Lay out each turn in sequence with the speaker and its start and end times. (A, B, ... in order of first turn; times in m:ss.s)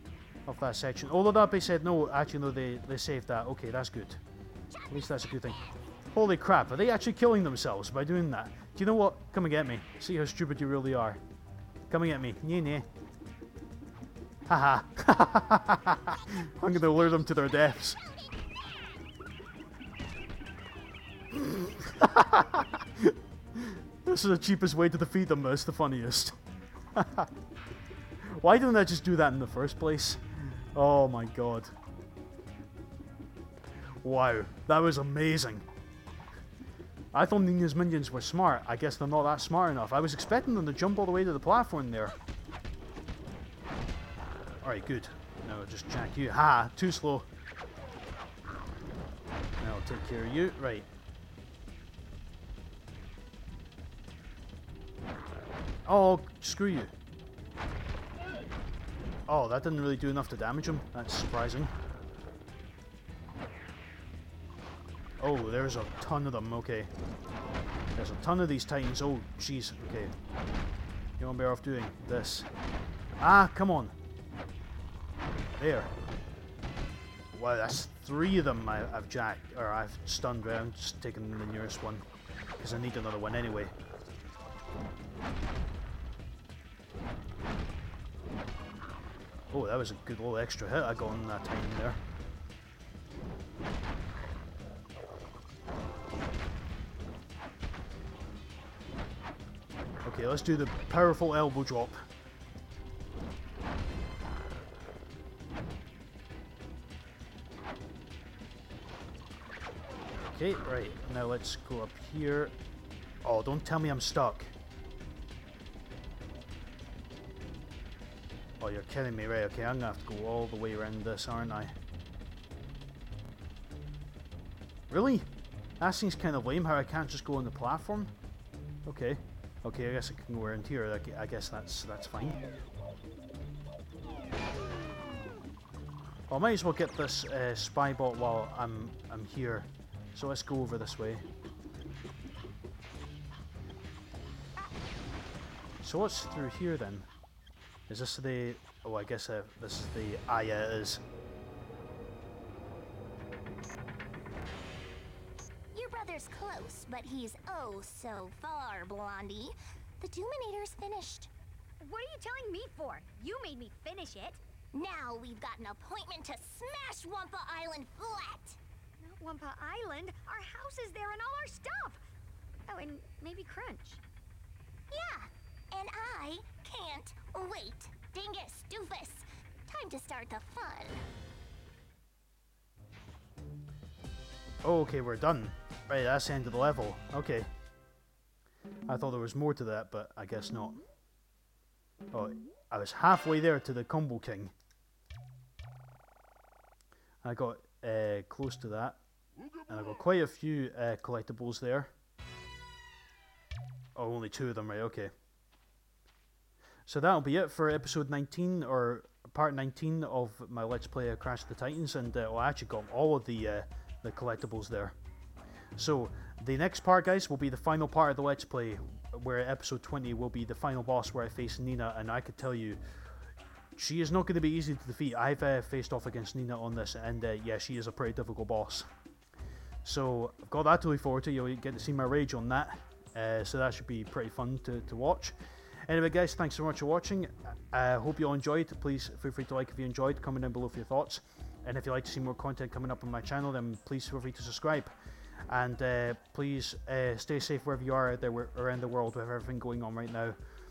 0:00.5-0:04.2 A
0:04.7-0:05.0 B
0:04.9-0:11.2 A
0:11.9-0:12.9 A
0:14.5-0:18.0 A
0:16.0-0:19.1 B
0:21.3-0:26.4 A
0:26.9-0:27.3 A
0:28.2-0:31.7 A
0:34.0-0:35.7 A
0:37.1-0:42.2 A
0:44.6-0:47.3 A
0:49.6-0:50.9 A
0:55.9-0:56.9 A
0:59.3-1:01.7 A
1:05.2-1:06.9 A
1:08.0-1:10.1 A
1:11.2-1:12.5 A
1:13.2-1:14.0 A
1:15.5-1:15.9 A
1:17.3-1:22.0 A
1:22.6-1:23.7 A
1:29.5-1:32.0 A
1:40.0-1:42.1 A
1:50.2-1:52.6 A
1:53.2-1:54.5 A
1:58.6-2:01.8 A
2:04.9-2:05.3 A
2:05.8-2:08.2 A
2:08.9-2:12.4 A
2:16.3-2:21.2 A
2:25.8-2:27.1 A
2:27.9-2:31.0 A
2:35.7-2:41.3 B
2:41.8-2:44.4 C
2:44.7-2:48.6 B
2:49.0-2:52.0 C
2:52.7-2:54.0 C
2:54.9-3:01.0 B
3:04.6-3:07.5 A
3:08.9-3:10.8 A
3:12.1-3:14.5 A
3:17.2-3:19.0 A
3:19.7-3:21.9 A
3:24.0-3:25.1 A
3:26.9-3:35.0 A
3:35.8-3:42.8 A
3:43.8-3:48.9 A
3:49.8-3:55.4 A
3:55.9-4:04.9 A
4:05.5-4:10.4 A